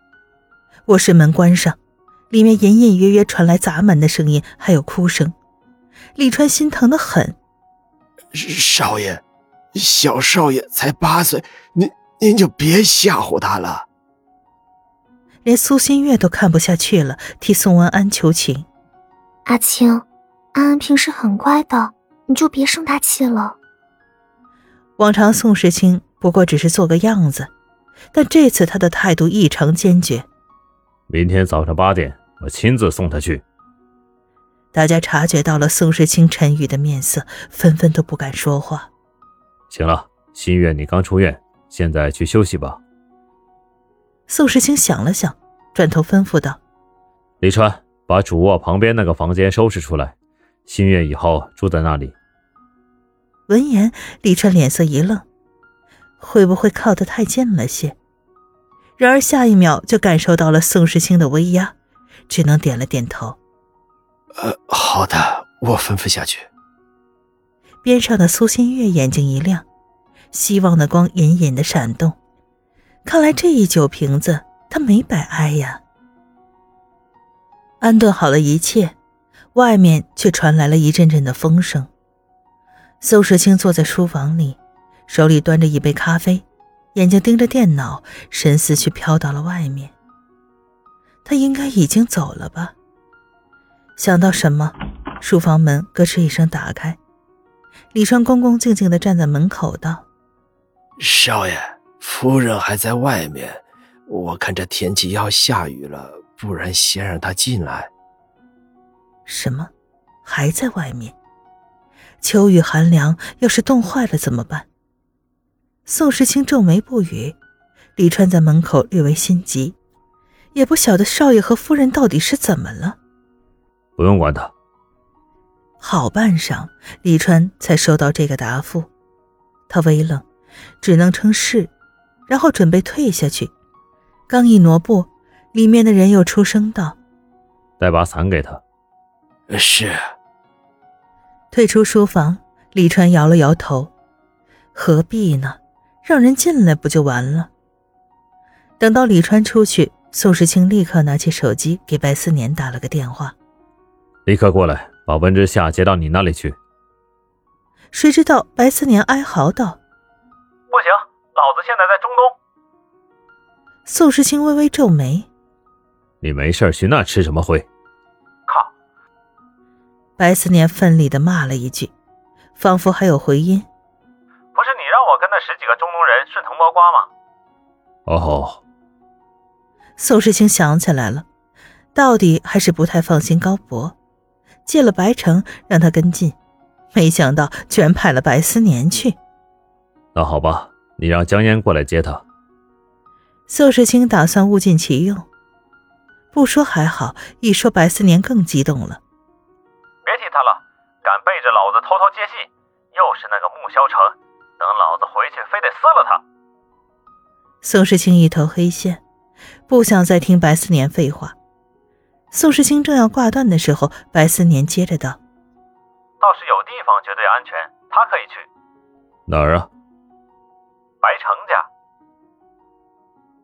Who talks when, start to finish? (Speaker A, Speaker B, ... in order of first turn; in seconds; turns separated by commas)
Speaker A: 0.9-1.8, Speaker A: 2.3-5.3, Speaker A: 6.2-7.4, Speaker B: 8.3-9.2, Speaker B: 9.8-13.9, Speaker A: 15.4-18.7, Speaker C: 19.5-23.6, Speaker A: 25.0-27.5, Speaker A: 28.1-30.3, Speaker D: 31.1-33.4, Speaker A: 34.7-38.9, Speaker D: 39.7-42.8, Speaker A: 44.3-46.6, Speaker D: 47.4-50.1, Speaker D: 50.7-52.1, Speaker A: 53.5-55.3, Speaker A: 56.2-58.0, Speaker A: 59.0-61.8, Speaker A: 62.3-63.4, Speaker B: 64.4-66.5, Speaker A: 67.8-69.7, Speaker A: 70.3-72.2, Speaker A: 73.0-75.8, Speaker A: 77.8-79.0, Speaker A: 79.5-81.9, Speaker A: 83.0-89.9, Speaker A: 91.2-92.8, Speaker A: 94.0-97.0, Speaker A: 97.9-100.1, Speaker B: 101.0-107.9, Speaker A: 109.3-109.7, Speaker A: 110.2-111.2, Speaker A: 112.2-114.7, Speaker A: 115.9-117.4, Speaker A: 118.0-119.8, Speaker A: 120.5-123.0, Speaker D: 124.0-124.5, Speaker A: 125.8-128.9, Speaker A: 129.7-130.2, Speaker A: 130.8-131.7, Speaker A: 132.3-133.5, Speaker A: 134.3-137.0, Speaker D: 137.8-138.6, Speaker B: 139.5-140.0, Speaker A: 141.5-143.9, Speaker A: 144.7-147.5, Speaker A: 148.8-153.3, Speaker D: 154.3-156.6, Speaker A: 157.9-159.8, Speaker E: 160.7-162.4, Speaker A: 163.9-165.3, Speaker D: 166.2-167.7, Speaker A: 170.2-171.9, Speaker A: 172.6-173.7, Speaker E: 174.6-177.1, Speaker D: 178.1-178.6, Speaker A: 180.0-181.3, Speaker A: 181.9-184.0, Speaker A: 184.7-186.4, Speaker A: 186.9-189.2, Speaker D: 190.2-192.2, Speaker A: 193.5-195.3, Speaker A: 196.3-199.0, Speaker E: 200.1-206.2, Speaker A: 207.6-209.0, Speaker A: 209.7-211.4, Speaker A: 212.3-215.2, Speaker E: 216.2-218.5, Speaker D: 219.3-219.7, Speaker E: 221.0-221.7